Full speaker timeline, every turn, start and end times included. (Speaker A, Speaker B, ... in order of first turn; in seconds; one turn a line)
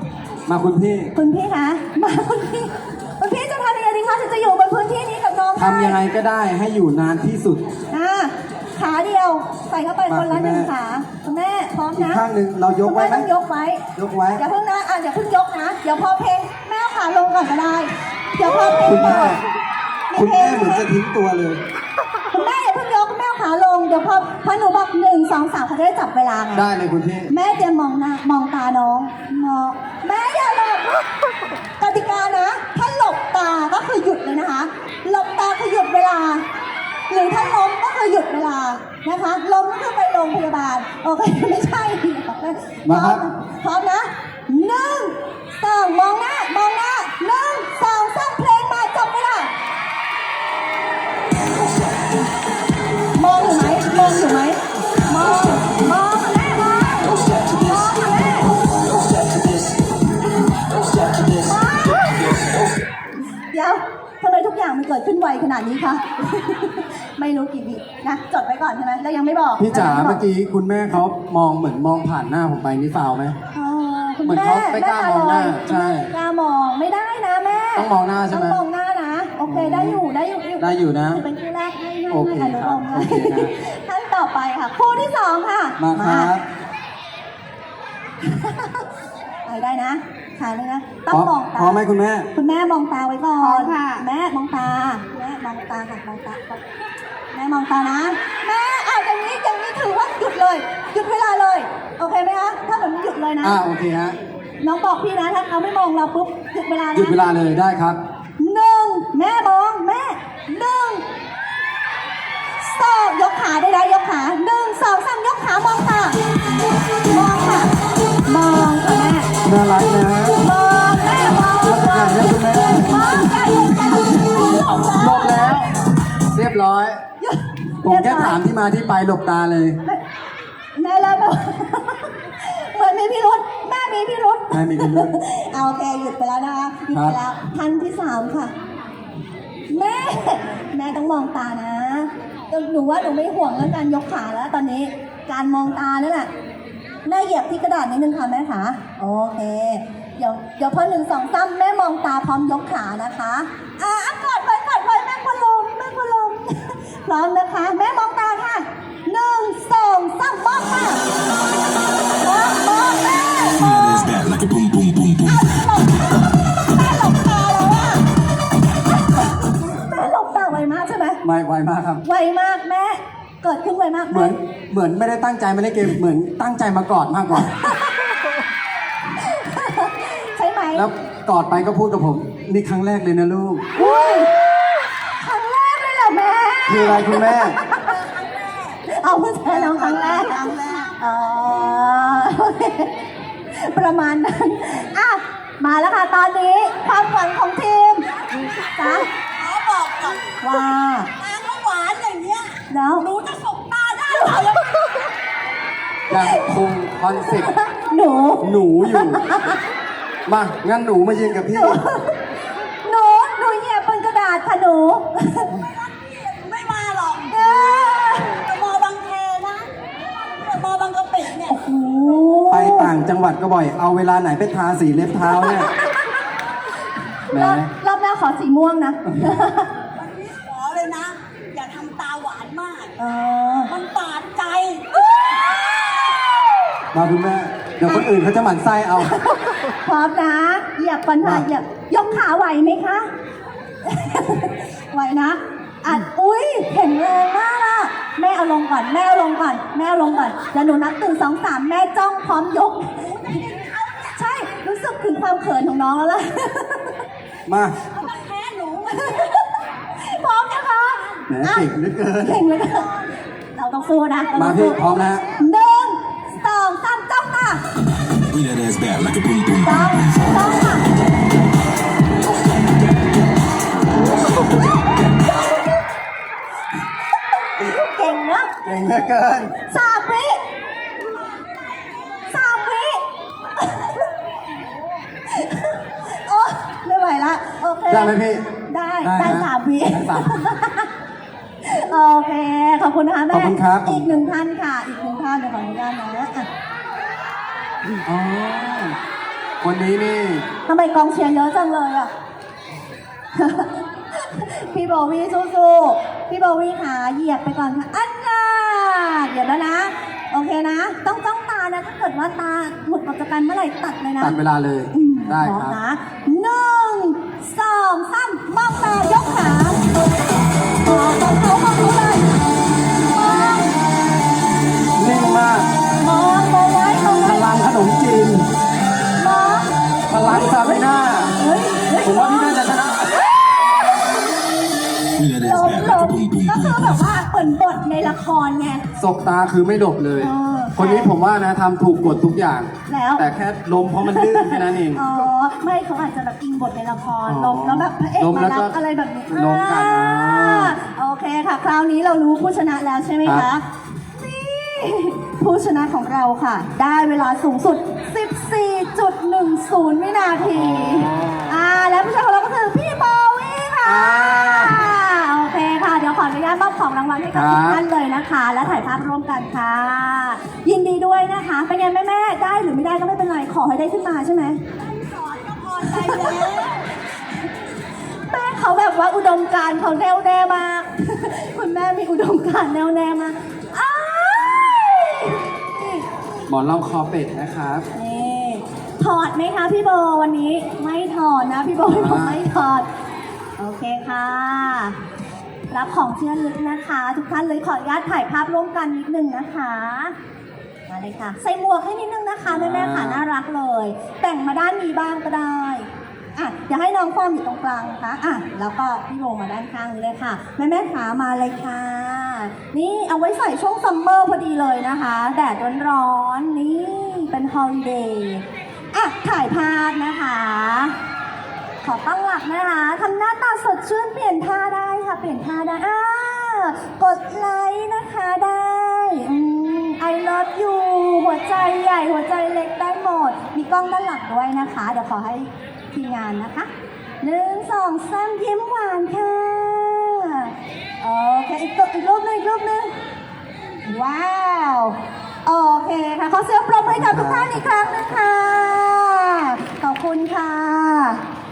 Speaker A: 0.5-1.1
Speaker B: 1.1-6.0
Speaker A: 5.5-7.6
Speaker B: 7.9-12.2
Speaker A: 10.1-10.7
Speaker A: 11.9-13.3
Speaker B: 12.8-19.4
Speaker A: 13.9-14.4
Speaker A: 18.6-19.4
Speaker B: 20.1-20.9
Speaker A: 20.1-21.6
Speaker B: 22.3-26.7
Speaker A: 26.5-27.3
Speaker B: 27.3-31.1
Speaker B: 31.8-36.4
Speaker B: 37.1-49.5
Speaker A: 42.8-43.2
Speaker B: 53.1-58.6
Speaker B: 61.3-62.5
Speaker B: 63.5-70.2
Speaker A: 69.6-73.4
Speaker B: 73.5-86.3
Speaker A: 74.2-76.1
Speaker A: 77.8-78.6
Speaker A: 79.5-80.0
Speaker A: 80.6-81.2
Speaker A: 82.1-83.5
Speaker A: 85.8-86.4
Speaker B: 88.2-88.8
Speaker B: 89.4-91.8
Speaker A: 91.1-92.3
Speaker B: 92.3-96.6
Speaker C: 93.4-94.0
Speaker B: 97.3-103.6
Speaker A: 103.4-104.2
Speaker B: 104.6-107.2
Speaker A: 106.9-108.0
Speaker B: 108.4-111.0
Speaker B: 112.6-116.2
Speaker B: 117.0-117.7
Speaker B: 118.2-119.3
Speaker A: 119.4-120.4
Speaker B: 120.3-124.6
Speaker A: 121.6-123.0
Speaker C: 124.1-125.7
Speaker A: 124.8-127.0
Speaker B: 127.2-128.4
Speaker A: 127.8-129.8
Speaker B: 130.8-138.5
Speaker A: 134.5-135.2
Speaker A: 136.9-137.2
Speaker B: 139.7-146.3
Speaker B: 147.0-161.0
Speaker B: 162.2-163.9
Speaker D: 163.6-165.5
Speaker B: 165.2-168.1
Speaker B: 169.0-171.2
Speaker A: 171.2-172.0
Speaker B: 172.0-174.4
Speaker A: 174.1-177.6
Speaker B: 177.6-178.1
Speaker B: 179.1-180.9
Speaker A: 180.7-183.7
Speaker B: 183.7-188.0
Speaker A: 186.7-187.6
Speaker C: 187.9-188.8
Speaker B: 188.9-192.9
Speaker C: 189.5-190.9
Speaker B: 193.5-198.1
Speaker C: 198.2-200.4
Speaker B: 198.6-199.1
Speaker B: 200.4-201.1
Speaker C: 201.2-205.0
Speaker B: 202.7-203.1
Speaker A: 206.1-207.5
Speaker B: 207.3-209.6
Speaker A: 208.4-209.5
Speaker A: 210.3-211.8
Speaker B: 211.5-212.2
Speaker B: 212.8-215.5
Speaker C: 215.4-221.6
Speaker B: 217.3-218.4
Speaker B: 221.4-222.9
Speaker A: 222.5-225.7
Speaker B: 225.3-226.1
Speaker B: 227.3-229.7
Speaker A: 227.3-227.7
Speaker C: 229.9-232.9
Speaker B: 233.0-233.7
Speaker C: 233.7-235.4
Speaker B: 235.0-236.5
Speaker A: 236.9-239.1
Speaker B: 239.0-243.1
Speaker A: 241.2-241.5
Speaker B: 243.8-257.0
Speaker A: 257.5-257.8
Speaker C: 257.9-259.3
Speaker B: 258.9-261.7
Speaker A: 261.3-262.4
Speaker B: 262.2-262.9
Speaker B: 263.6-264.8
Speaker C: 264.1-264.8
Speaker A: 264.4-265.2
Speaker B: 265.3-267.6
Speaker D: 268.3-270.3
Speaker B: 269.6-270.9
Speaker B: 277.6-278.5
Speaker A: 278.6-279.5
Speaker B: 279.6-280.4
Speaker B: 282.3-283.0
Speaker B: 283.6-284.0
Speaker B: 285.3-288.2
Speaker A: 287.9-288.4
Speaker B: 288.7-290.9
Speaker A: 289.0-290.3
Speaker B: 291.6-296.5
Speaker A: 293.3-294.1
Speaker A: 298.0-299.0
Speaker A: 299.6-300.5
Speaker B: 300.7-302.1
Speaker B: 303.3-314.4
Speaker A: 314.2-315.8
Speaker B: 314.9-319.8
Speaker B: 320.8-322.3
Speaker B: 322.9-323.7
Speaker A: 325.0-325.7
Speaker B: 326.0-327.5
Speaker A: 327.0-328.5
Speaker B: 329.2-329.7
Speaker A: 330.1-331.4
Speaker B: 331.4-332.7
Speaker A: 331.9-333.1
Speaker D: 335.1-337.1
Speaker B: 335.3-338.8
Speaker A: 339.0-345.1
Speaker B: 340.2-341.1
Speaker B: 342.9-343.2
Speaker B: 344.0-353.6
Speaker A: 347.3-348.8
Speaker A: 349.3-350.8
Speaker A: 353.2-353.5
Speaker B: 354.1-374.6
Speaker A: 360.4-361.6
Speaker A: 363.8-364.9
Speaker A: 367.3-367.8
Speaker C: 374.8-376.8
Speaker B: 375.8-376.5
Speaker B: 378.3-386.0
Speaker A: 386.5-387.9
Speaker B: 387.9-392.9
Speaker A: 391.9-392.4
Speaker B: 393.6-395.0
Speaker B: 395.7-400.1
Speaker B: 400.9-420.9
Speaker A: 402.4-403.2
Speaker B: 421.8-436.7
Speaker B: 437.2-442.9
Speaker B: 443.8-451.2
Speaker A: 446.9-447.6